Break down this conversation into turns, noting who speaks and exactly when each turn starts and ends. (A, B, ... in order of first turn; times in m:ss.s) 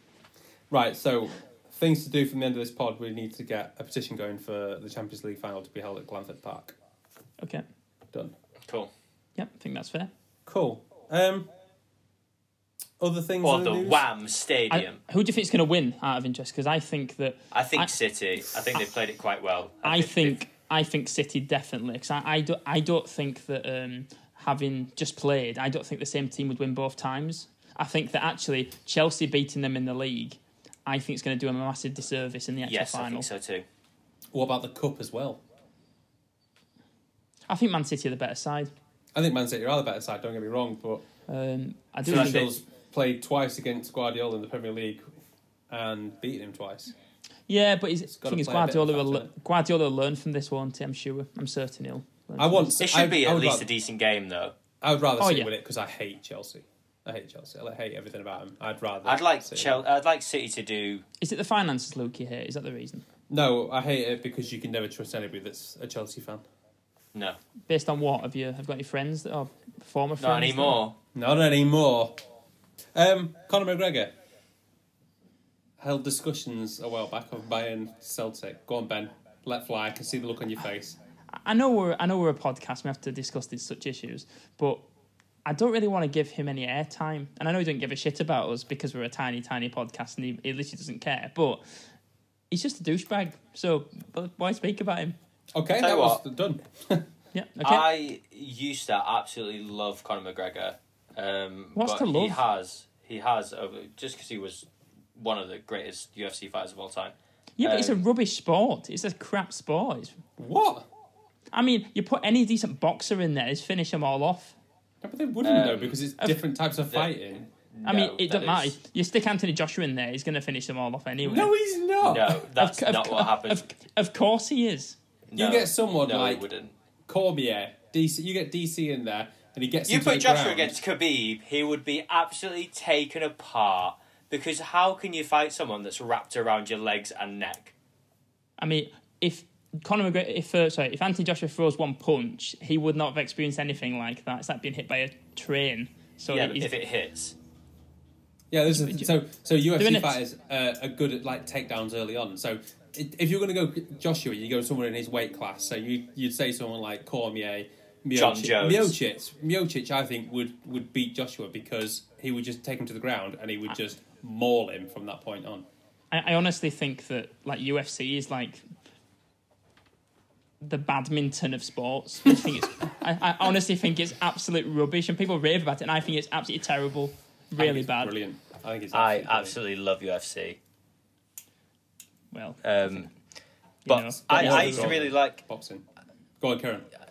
0:00.7-0:06.8 A
0:09.4-0:10.1 B
0:10.4-0:11.5 A
0:13.0-0:14.0 A
0:13.4-0:15.0 C
0:14.7-0:17.9 B
0:17.5-0:20.4 C
0:19.8-0:33.3 B
0:32.6-0:33.6 C
0:34.3-0:35.4 A
0:37.5-0:38.7 B
0:39.1-0:41.0 A
0:41.3-0:42.5 B
0:42.0-0:45.1 A
0:42.1-0:42.6 C
0:45.7-0:46.9 A
0:47.5-0:52.7 B
0:48.1-0:49.3 A
0:52.4-0:53.7 A
0:52.8-0:54.5 C
0:54.8-0:59.8 A
0:55.2-0:55.5 B
0:59.0-1:01.0 C
1:01.2-1:03.0 B
1:03.3-1:06.4 A
1:07.7-1:10.8 B
1:10.2-1:11.0 C
1:11.1-1:12.2 A
1:12.9-1:14.1 A
1:15.8-1:21.0 A
1:21.3-1:24.8 B
1:25.4-1:31.6 B
1:32.5-1:35.2 B
1:35.5-1:37.1 A
1:35.8-1:36.2 C
1:37.3-1:37.9 B
1:37.6-1:48.0 C
1:41.8-1:42.4 B
1:47.6-1:50.2 B
1:50.4-1:50.8 A
1:51.5-1:54.6 B
1:55.0-1:57.5 A
1:55.4-1:56.0 C
1:56.8-1:57.1 C
1:57.7-1:58.7 C
1:57.8-2:01.5 B
2:01.2-2:02.4 A
2:02.0-2:03.6 C
2:02.5-2:05.0 B
2:05.3-2:06.7 C
2:05.4-2:06.4 A
2:07.1-2:10.8 A
2:09.9-2:17.7 C
2:18.6-2:26.7 B
2:26.3-2:27.3 C
2:28.5-2:45.6 A
2:28.7-2:29.1 B
2:29.8-2:30.2 B
2:38.1-2:38.9 C
2:46.1-2:48.6 B
2:50.6-2:58.1 B
2:57.6-2:59.6 A
2:58.9-3:00.6 C
3:02.3-3:03.1 B
3:02.6-3:03.1 C
3:03.8-3:05.0 B
3:03.9-3:05.4 C
3:04.2-3:05.8 A
3:06.4-3:06.9 A